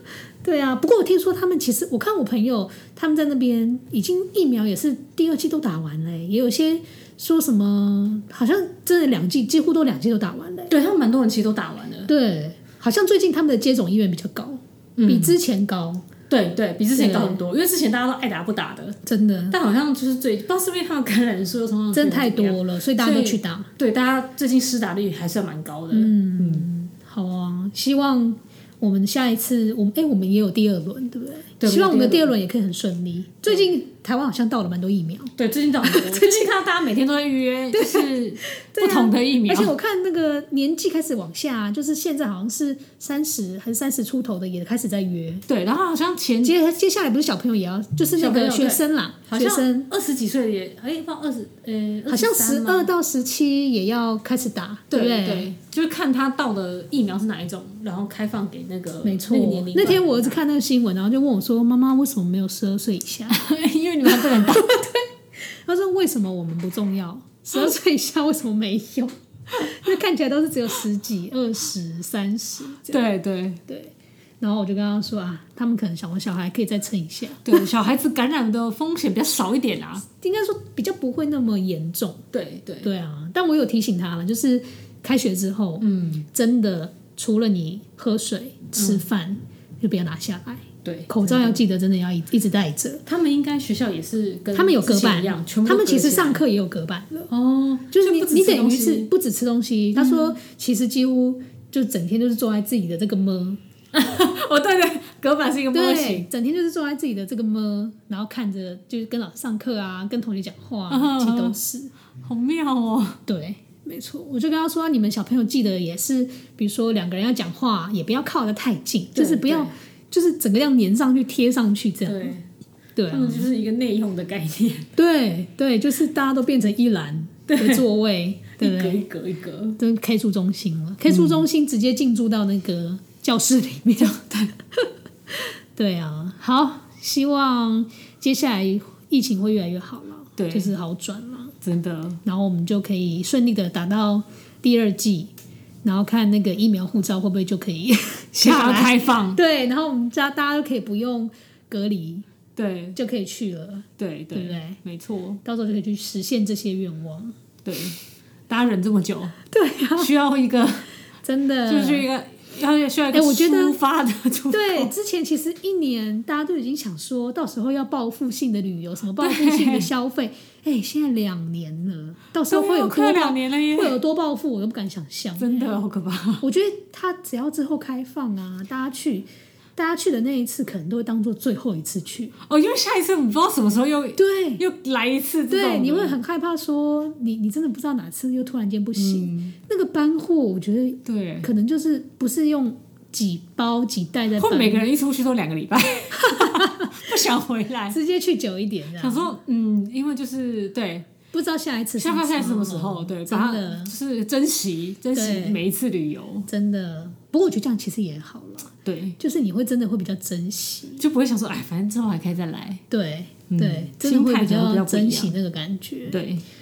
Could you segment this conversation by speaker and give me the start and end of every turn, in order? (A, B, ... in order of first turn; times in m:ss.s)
0:00.4-0:10.7 A
0:10.7-0:12.1 B
0:12.1-0:16.0 A
0:15.0-0:15.4 B
0:16.3-0:26.7 B
0:16.9-0:17.4 A
0:19.0-0:19.6 A
0:21.9-0:23.7 A
0:25.9-0:36.3 A
0:31.6-0:32.3 B
0:35.4-0:39.7 B
0:37.7-0:45.4 A
0:45.5-0:46.5 B
0:46.4-0:49.9 A
0:48.2-0:52.9 B
0:52.1-0:55.5 A
0:54.9-1:00.4 B
0:59.0-1:03.4 A
1:03.3-1:04.8 B
1:04.1-1:13.0 A
1:12.9-1:13.6 B
1:13.7-1:17.6 A
1:17.4-1:20.0 B
1:20.1-1:22.2 A
1:22.3-1:22.9 B
1:22.8-1:33.0 A
1:25.8-1:26.2 B
1:28.8-1:29.0 B
1:30.8-1:31.6 B
1:33.0-1:36.4 B
1:34.5-1:37.3 A
1:37.3-1:39.1 B
1:37.9-1:43.6 A
1:39.9-1:40.4 B
1:43.9-1:46.3 B
1:45.7-1:51.9 A
1:50.9-1:51.6 B
1:52.2-1:53.2 B
1:53.3-2:02.3 A
1:59.1-1:59.7 B
2:02.0-2:02.4 B
2:03.0-2:03.5 A
2:03.1-2:04.9 B
2:05.0-2:09.0 A
2:07.5-2:07.8 B
2:08.6-2:09.8 B
2:09.8-2:14.2 A
2:11.0-2:11.4 B
2:14.0-2:14.5 B
2:14.7-2:21.5 A
2:20.4-2:20.7 B
2:21.6-2:22.2 B
2:22.2-2:25.3 A
2:25.8-2:32.2 A
2:28.4-2:29.4 B
2:32.6-2:33.0 B
2:32.9-2:34.8 A
2:34.0-2:35.4 B
2:35.4-2:37.3 A
2:37.6-2:38.0 B
2:38.5-2:39.3 B
2:39.5-2:40.1 A
2:40.0-2:40.9 B
2:41.2-2:42.0 A
2:41.7-2:44.9 B
2:43.1-2:43.8 A
2:44.5-2:55.7 A
2:49.2-2:49.9 B
2:52.5-2:54.0 B
2:55.4-2:56.4 B
2:56.4-3:02.3 A
3:02.4-3:06.2 B
3:04.2-3:04.6 A
3:05.5-3:14.8 A
3:09.0-3:09.5 B
3:11.0-3:11.5 B
3:14.4-3:18.0 B
3:16.1-3:17.1 A
3:17.9-3:19.3 A
3:19.0-3:21.1 B
3:21.3-3:23.9 A
3:22.0-3:26.5 B
3:25.1-3:25.6 A
3:26.5-3:31.0 A
3:28.8-3:29.2 B
3:31.0-3:32.8 B
3:32.9-3:36.2 A
3:33.5-3:35.4 B
3:36.1-3:36.4 B